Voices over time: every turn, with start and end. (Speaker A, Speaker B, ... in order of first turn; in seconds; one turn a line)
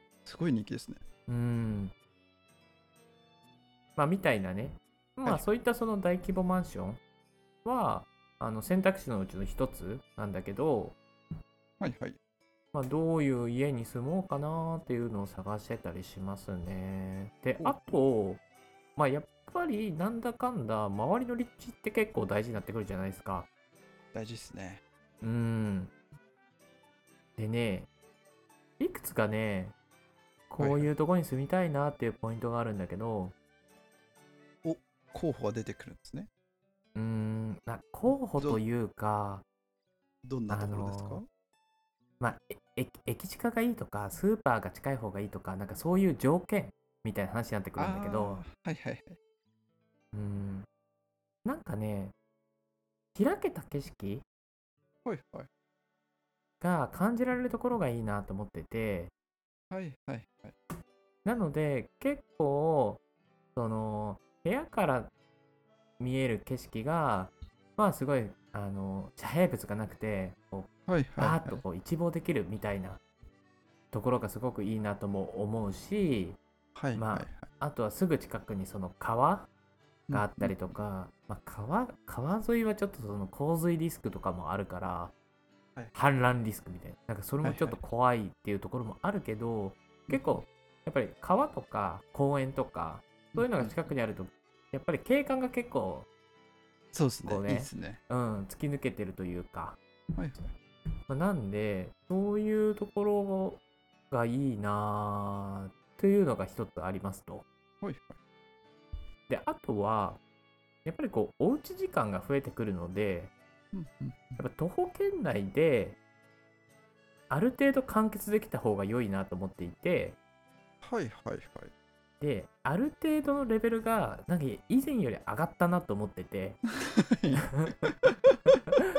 Speaker A: 0.2-1.0
Speaker B: 1.3-1.9
Speaker B: 4.0-7.0
Speaker B: 7.6-11.0
Speaker A: 11.8-12.2
Speaker B: 12.7-18.4
Speaker B: 18.9-23.5
Speaker A: 24.1-24.8
Speaker B: 25.2-25.9
Speaker B: 27.4-27.9
Speaker B: 28.8-29.7
Speaker B: 30.5-33.3
Speaker A: 30.6-30.9
Speaker A: 34.6-36.3
Speaker B: 37.0-39.4
Speaker A: 38.1-38.6
Speaker A: 40.2-41.2
Speaker B: 40.5-41.2
Speaker B: 42.2-48.4
Speaker A: 47.8-49.2
Speaker B: 50.1-50.6
Speaker B: 51.4-52.1
Speaker B: 53.1-54.2
Speaker A: 55.0-55.5
Speaker B: 56.6-59.1
Speaker A: 59.7-60.5
Speaker B: 61.2-63.0
Speaker B: 63.5-65.1
Speaker B: 66.0-73.0
Speaker A: 70.9-71.6
Speaker B: 73.9-76.4
Speaker A: 76.7-77.5
Speaker B: 76.9-79.5
Speaker A: 80.1-80.6
Speaker B: 80.1-85.1
Speaker B: 85.9-96.1
Speaker A: 87.4-87.8
Speaker A: 90.1-90.4
Speaker A: 93.3-93.8
Speaker A: 96.9-98.0
Speaker B: 97.2-99.8
Speaker A: 100.2-100.5
Speaker B: 101.1-107.4
Speaker A: 107.8-108.2
Speaker B: 109.3-110.2
Speaker B: 110.8-113.3
Speaker A: 113.7-114.4
Speaker B: 114.4-116.0
Speaker B: 117.3-120.2
Speaker A: 120.8-121.7
Speaker B: 122.2-126.6
Speaker A: 126.8-127.9
Speaker B: 127.4-128.1